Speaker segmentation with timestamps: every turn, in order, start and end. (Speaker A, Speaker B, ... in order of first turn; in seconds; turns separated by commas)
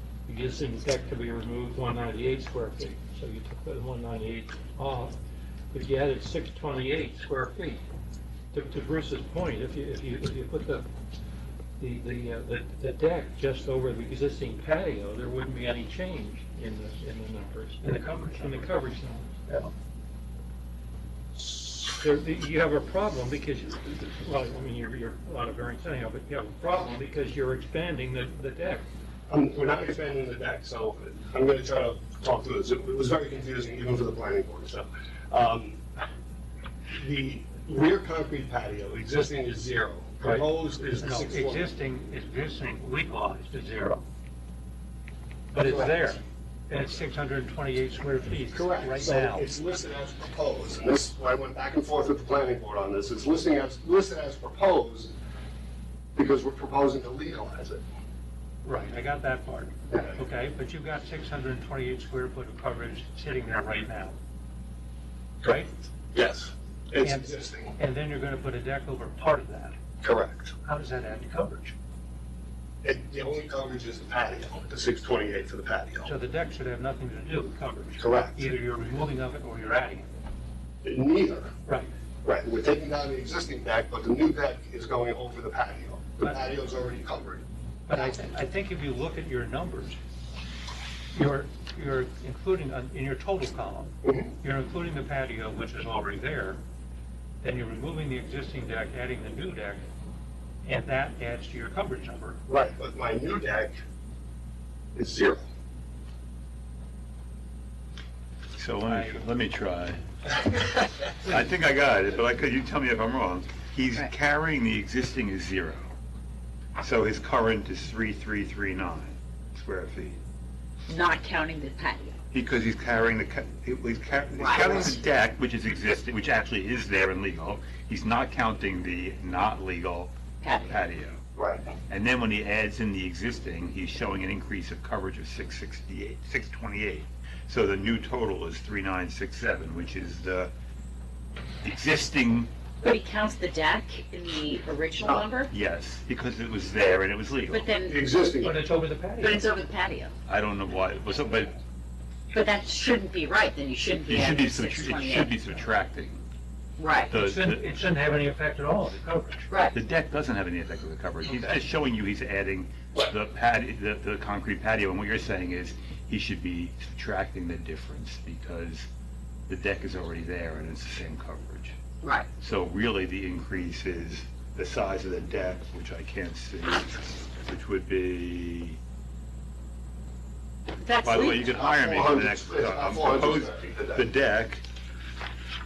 Speaker A: 0.2-5.2, Speaker A: 5.7-7.8, Speaker A: 8.5-10.9, Speaker A: 11.8-19.3, Speaker B: 17.8-18.7, Speaker B: 19.5-19.7, Speaker A: 21.3-28.9, Speaker C: 29.3-36.0, Speaker C: 37.0-41.7, Speaker B: 40.2-44.0, Speaker B: 45.5-49.5, Speaker C: 45.6-46.0, Speaker C: 48.5-55.1, Speaker C: 56.1-57.8, Speaker B: 58.6-64.2, Speaker C: 59.9-60.2, Speaker B: 65.4-65.7, Speaker C: 66.1-67.8, Speaker B: 67.0-69.8, Speaker C: 70.0-70.5, Speaker B: 70.6-71.7, Speaker C: 72.8-76.1, Speaker B: 76.0-80.0, Speaker C: 78.0-78.5, Speaker C: 80.8-81.5, Speaker C: 82.2-88.1, Speaker B: 87.9-90.0, Speaker B: 91.1-96.6, Speaker C: 94.0-94.3, Speaker B: 97.4-99.8, Speaker B: 100.6-102.4, Speaker C: 102.5-103.8, Speaker C: 104.9-105.4, Speaker D: 108.5-110.0, Speaker B: 108.9-109.2, Speaker D: 111.3-115.9, Speaker D: 116.8-120.2, Speaker E: 120.9-122.2, Speaker D: 122.3-131.2, Speaker E: 124.4-124.8, Speaker E: 130.4-130.8, Speaker C: 131.3-131.6, Speaker D: 131.9-140.5, Speaker D: 141.6-142.5, Speaker E: 142.8-145.5, Speaker D: 145.4-147.8, Speaker E: 147.5-147.9, Speaker C: 147.9-148.6, Speaker B: 148.4-149.5, Speaker E: 149.2-150.1, Speaker D: 150.2-151.6, Speaker E: 152.3-155.3, Speaker D: 154.0-156.2, Speaker E: 156.8-157.1, Speaker D: 157.1-157.6, Speaker B: 157.1-159.5, Speaker E: 159.5-159.8, Speaker D: 159.7-168.9, Speaker B: 161.2-161.6, Speaker D: 169.5-171.8, Speaker E: 172.0-172.3, Speaker D: 172.4-178.8, Speaker E: 180.8-181.4, Speaker D: 181.0-184.6, Speaker C: 181.3-184.0